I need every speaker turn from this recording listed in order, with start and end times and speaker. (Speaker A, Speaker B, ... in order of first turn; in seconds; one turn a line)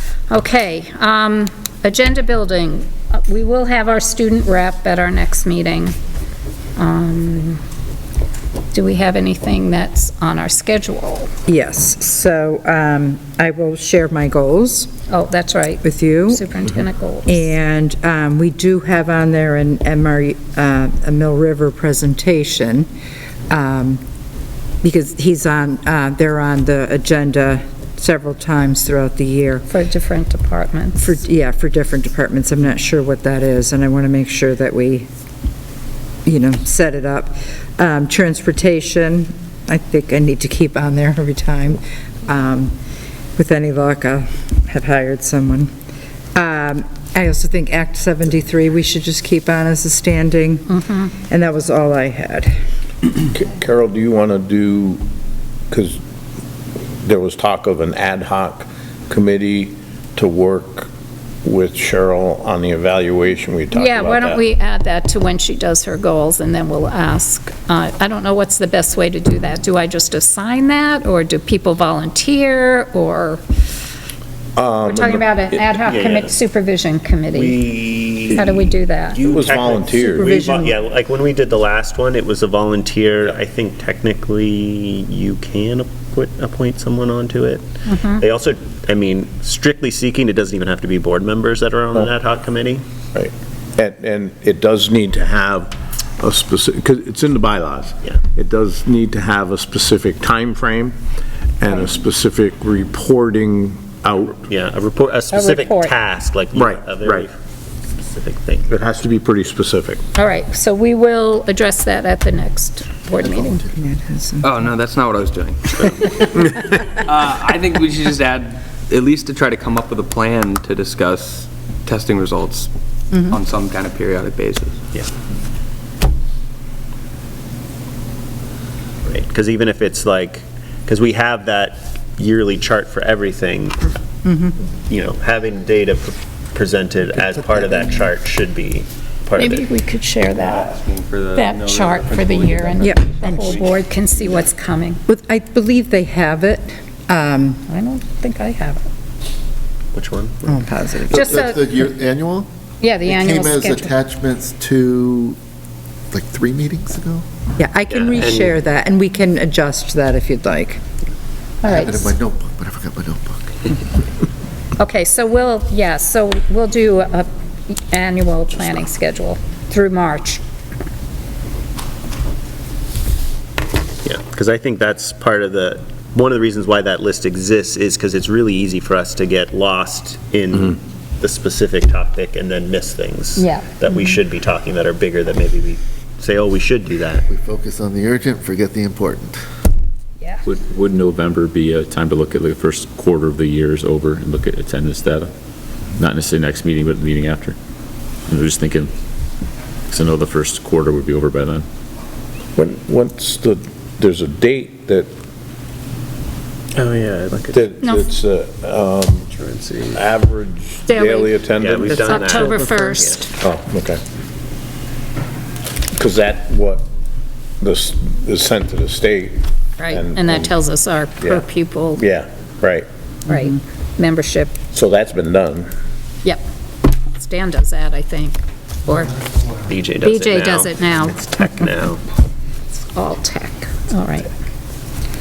Speaker A: 0.3-5.9
Speaker A: 6.8-7.6
Speaker A: 8.7-11.3
Speaker B: 11.5-14.9
Speaker A: 15.1-17.4
Speaker B: 15.8-16.5
Speaker B: 17.3-22.9
Speaker B: 23.5-24.0
Speaker B: 24.8-29.7
Speaker A: 29.7-31.1
Speaker B: 31.0-35.1
Speaker B: 36.2-42.7
Speaker B: 43.4-45.7
Speaker B: 46.4-53.1
Speaker C: 53.3-55.0
Speaker C: 55.7-56.0
Speaker C: 57.0-60.9
Speaker C: 61.5-64.4
Speaker A: 63.7-73.4
Speaker C: 74.6-75.3
Speaker A: 74.8-77.6
Speaker D: 75.5-76.3
Speaker D: 77.3-92.8
Speaker A: 78.3-79.2
Speaker C: 79.2-80.4
Speaker B: 80.2-80.7
Speaker A: 87.9-88.2
Speaker C: 93.2-101.0
Speaker C: 101.6-104.5
Speaker D: 104.5-107.4
Speaker A: 105.3-105.9
Speaker C: 106.5-107.3
Speaker D: 107.9-108.7
Speaker C: 108.7-110.0
Speaker A: 110.2-113.7
Speaker E: 113.2-113.6
Speaker B: 113.8-114.6
Speaker F: 114.4-122.7
Speaker B: 123.1-123.4
Speaker F: 123.3-124.8
Speaker D: 129.1-134.0
Speaker B: 134.2-134.6
Speaker D: 134.9-139.7
Speaker A: 139.4-140.6
Speaker F: 140.5-143.7
Speaker A: 141.3-145.0
Speaker B: 142.8-143.6
Speaker B: 145.1-147.7
Speaker A: 147.7-148.8
Speaker D: 149.9-150.7
Speaker B: 150.5-151.3
Speaker E: 151.1-152.5
Speaker A: 151.1-151.7
Speaker A: 152.8-154.0
Speaker E: 153.0-155.4
Speaker E: 156.1-157.3
Speaker B: 157.6-160.8
Speaker D: 157.9-158.5
Speaker A: 161.6-162.1
Speaker E: 161.7-163.7
Speaker A: 164.8-170.4
Speaker D: 174.1-187.3
Speaker A: 183.4-184.1
Speaker E: 187.3-189.4
Speaker G: 190.4-195.3
Speaker G: 196.0-197.6
Speaker G: 198.3-198.9
Speaker G: 199.9-201.7
Speaker C: 202.6-205.1
Speaker D: 206.8-207.7
Speaker C: 207.5-209.3
Speaker A: 207.8-208.1
Speaker D: 209.3-210.0
Speaker C: 209.9-212.4
Speaker A: 210.9-211.4
Speaker D: 211.6-213.3
Speaker A: 211.9-213.3
Speaker B: 212.6-213.1
Speaker C: 213.4-214.0
Speaker C: 215.9-216.8
Speaker C: 217.6-220.6
Speaker A: 219.8-222.0
Speaker C: 221.2-222.9
Speaker A: 223.3-224.6
Speaker C: 224.7-225.7
Speaker A: 227.1-229.2
Speaker D: 229.7-232.0
Speaker A: 230.0-231.3
Speaker A: 232.8-234.3